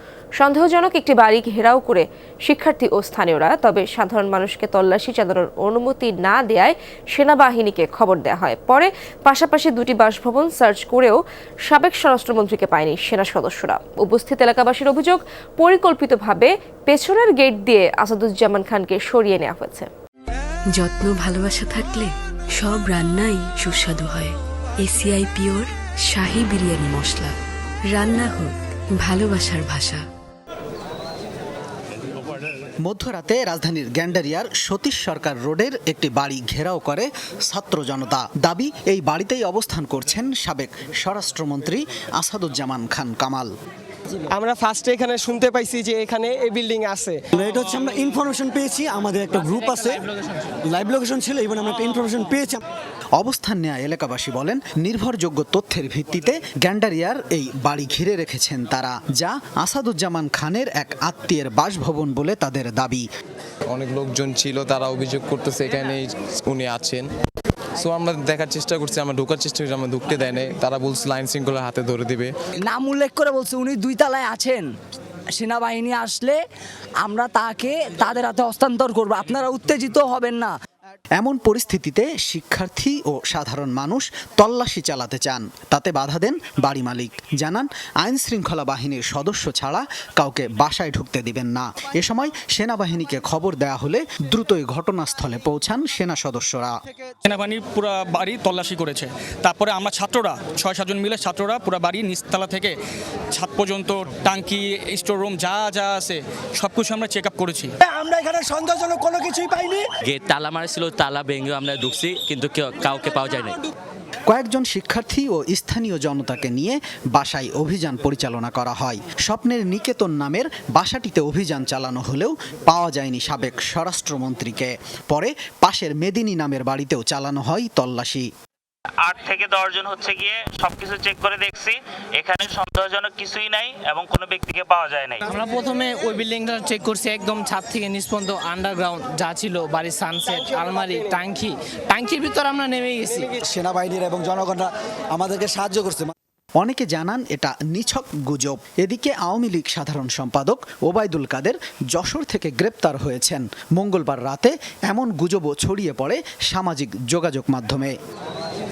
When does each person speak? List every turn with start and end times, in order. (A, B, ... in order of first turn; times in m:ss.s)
0:00.4-0:19.9 A
0:20.7-0:27.4 B
0:27.9-0:30.0 B
0:32.8-0:43.5 C
0:44.3-0:47.2 D
0:47.4-0:50.0 E
0:50.7-0:52.6 E
0:53.2-1:03.0 C
1:03.7-1:07.0 F
1:07.8-1:12.3 F
1:12.6-1:14.7 G
1:15.3-1:16.4 G
1:17.0-1:20.5 G
1:21.2-1:36.8 C
1:37.2-1:42.7 H
1:43.3-1:47.7 H
1:47.9-1:49.8 E
1:50.0-1:53.6 I
1:54.3-2:08.3 C
2:09.0-2:15.2 J
2:15.3-2:23.2 K
2:20.4-2:21.1 D
2:23.5-2:26.1 E
2:26.6-2:37.9 C